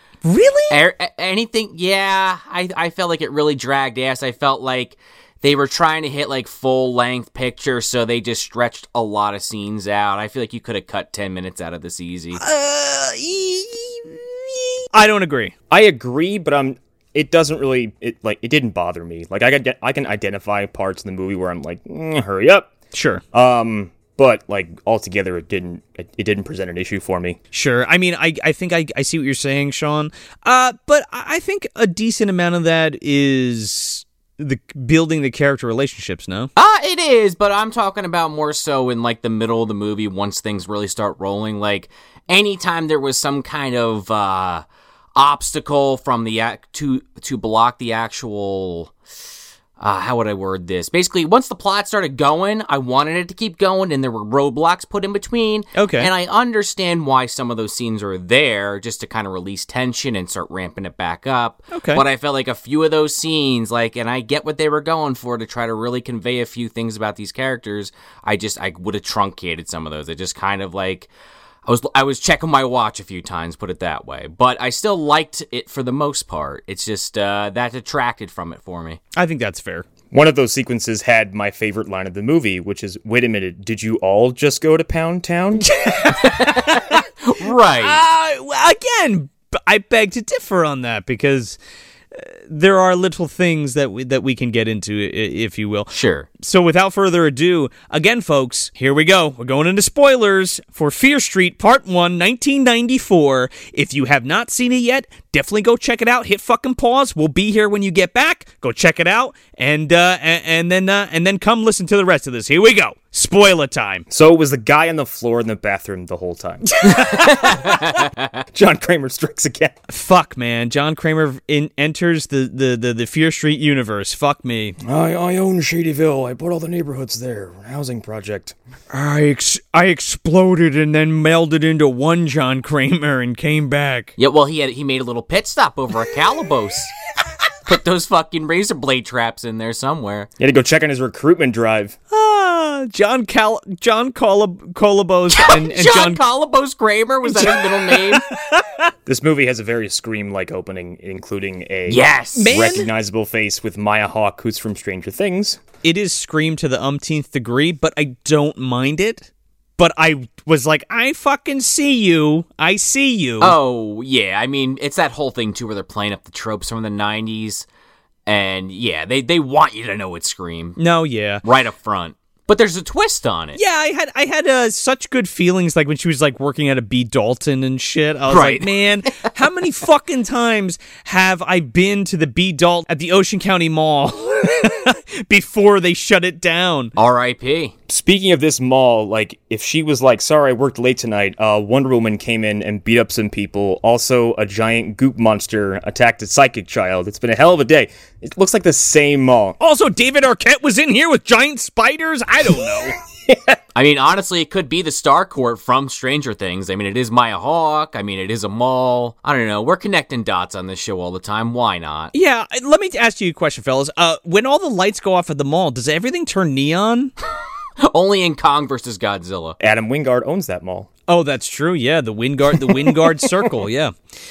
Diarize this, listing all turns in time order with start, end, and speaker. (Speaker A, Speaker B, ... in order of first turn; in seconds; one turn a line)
Speaker A: 0.2-0.8
Speaker B: 0.7-12.4
Speaker A: 12.4-15.5
Speaker C: 15.7-22.7
Speaker A: 22.9-23.2
Speaker C: 23.3-27.4
Speaker A: 27.5-36.5
Speaker B: 36.6-44.6
Speaker B: 45.2-48.9
Speaker B: 49.8-71.1
Speaker A: 55.8-56.1
Speaker A: 61.7-62.0
Speaker B: 71.7-79.0
Speaker A: 79.2-79.9
Speaker C: 80.1-85.7
Speaker A: 85.6-87.0
Speaker B: 86.2-88.0
Speaker A: 87.8-91.6
Speaker A: 92.1-114.1
Speaker B: 95.9-96.3
Speaker C: 114.1-117.9
Speaker A: 116.8-117.8
Speaker B: 117.2-118.1
Speaker C: 118.5-119.8
Speaker A: 119.9-124.8
Speaker C: 124.8-128.6
Speaker A: 128.9-134.1
Speaker B: 134.2-136.9
Speaker B: 137.7-140.3
Speaker C: 140.4-142.0
Speaker A: 142.1-146.2
Speaker B: 145.3-148.2
Speaker A: 147.3-148.9
Speaker C: 149.1-155.6
Speaker B: 151.9-152.5
Speaker A: 152.4-152.9
Speaker A: 155.8-163.6
Speaker B: 163.4-167.7
Speaker B: 168.3-170.8
Speaker A: 170.8-171.4
Speaker B: 171.4-173.6
Speaker A: 173.6-186.9
Speaker B: 178.3-178.7
Speaker B: 187.0-187.7
Speaker C: 187.9-199.6
Speaker A: 199.6-203.0
Speaker C: 203.3-203.6
Speaker B: 203.8-212.1
Speaker A: 212.1-217.1
Speaker B: 217.8-219.6
Speaker C: 219.6-220.9
Speaker A: 221.1-223.9
Speaker C: 222.7-223.2